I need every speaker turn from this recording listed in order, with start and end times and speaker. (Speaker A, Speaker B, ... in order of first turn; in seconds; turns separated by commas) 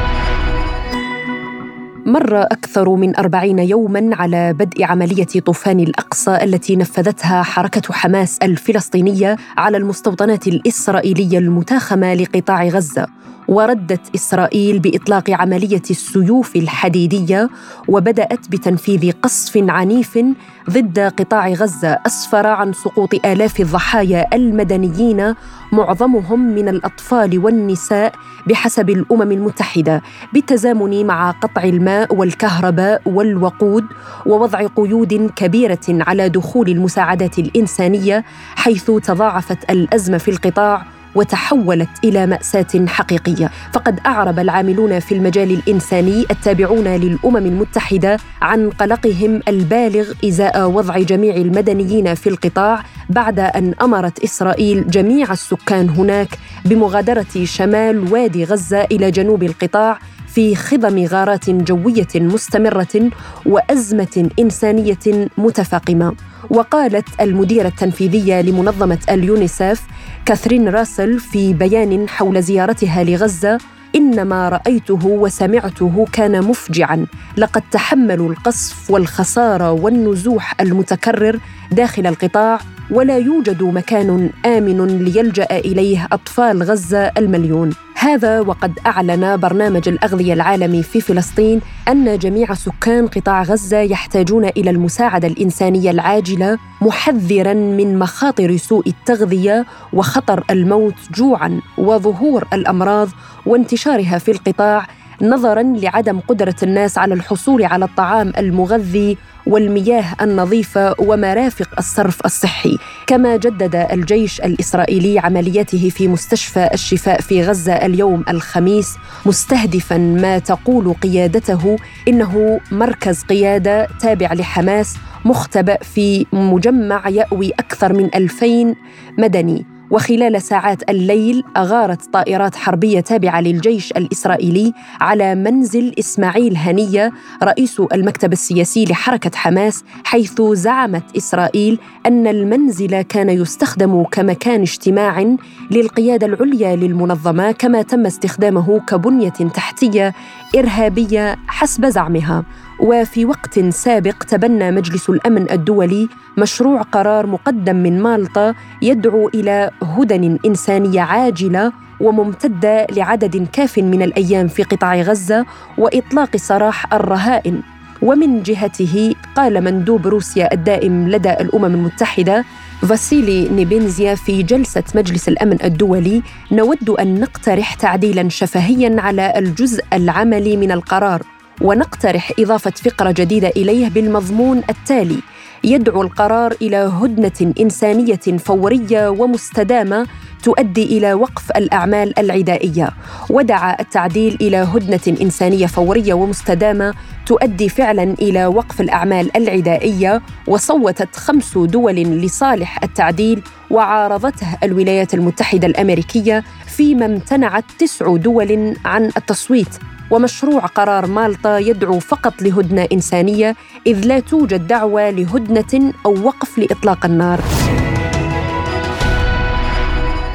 Speaker A: 2.1-217.4